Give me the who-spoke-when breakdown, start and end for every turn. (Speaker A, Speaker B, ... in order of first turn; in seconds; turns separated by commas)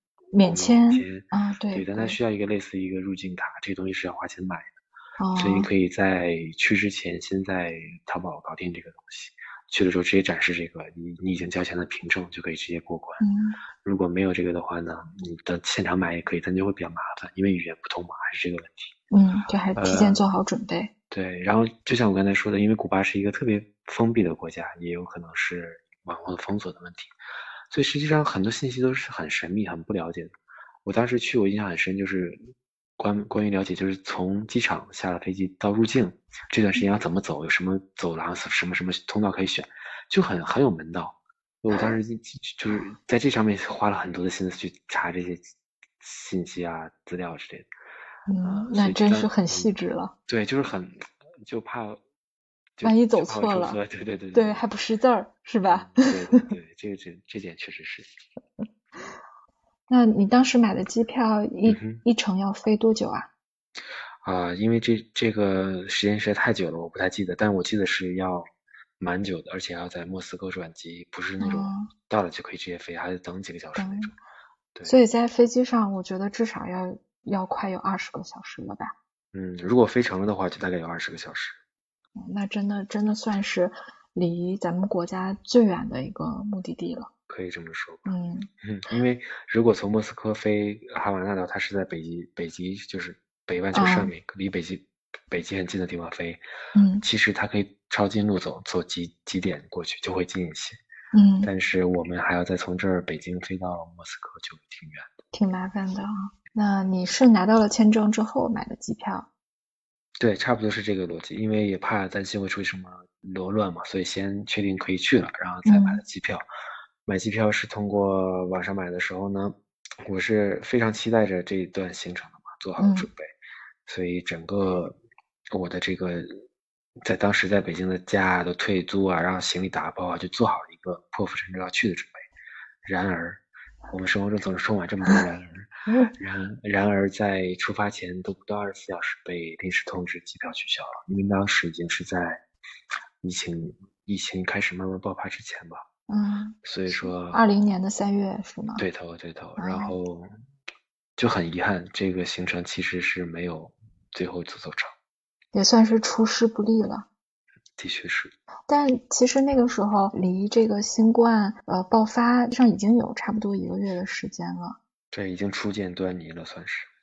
Speaker A: 0.3-2.2, Speaker B: 0.4-4.7, Speaker A: 5.2-5.7, Speaker B: 5.3-13.2, Speaker A: 13.2-13.6, Speaker B: 13.8-18.9, Speaker A: 19.1-20.9, Speaker B: 19.8-20.2, Speaker B: 21.1-27.1, Speaker B: 27.7-45.5, Speaker B: 46.0-47.7, Speaker A: 48.3-50.1, Speaker B: 48.4-49.7, Speaker B: 50.3-52.0, Speaker B: 52.8-54.6, Speaker A: 52.8-53.8, Speaker A: 54.3-56.4, Speaker B: 55.7-58.1, Speaker A: 59.9-63.3, Speaker B: 61.6-62.0, Speaker B: 64.2-68.5, Speaker B: 69.0-74.2, Speaker A: 71.4-71.9, Speaker A: 73.8-74.1, Speaker A: 74.9-78.9, Speaker B: 79.3-81.6, Speaker A: 82.2-87.1, Speaker B: 87.3-96.4, Speaker A: 88.1-88.5, Speaker A: 93.7-94.1, Speaker A: 96.8-97.0, Speaker B: 97.0-100.8, Speaker A: 101.1-101.5, Speaker B: 101.4-105.1, Speaker A: 105.3-109.3, Speaker B: 110.2-116.4, Speaker A: 115.7-116.0, Speaker B: 117.1-123.3, Speaker A: 122.8-123.1, Speaker B: 123.9-125.0, Speaker B: 125.5-126.5, Speaker B: 127.0-132.2, Speaker B: 132.8-142.4, Speaker B: 143.2-145.8, Speaker A: 146.1-148.9, Speaker B: 146.6-147.4, Speaker B: 148.8-150.3, Speaker A: 149.6-149.9, Speaker B: 151.2-154.9, Speaker A: 155.5-157.1, Speaker B: 157.8-158.3, Speaker A: 158.7-164.8, Speaker B: 165.1-166.9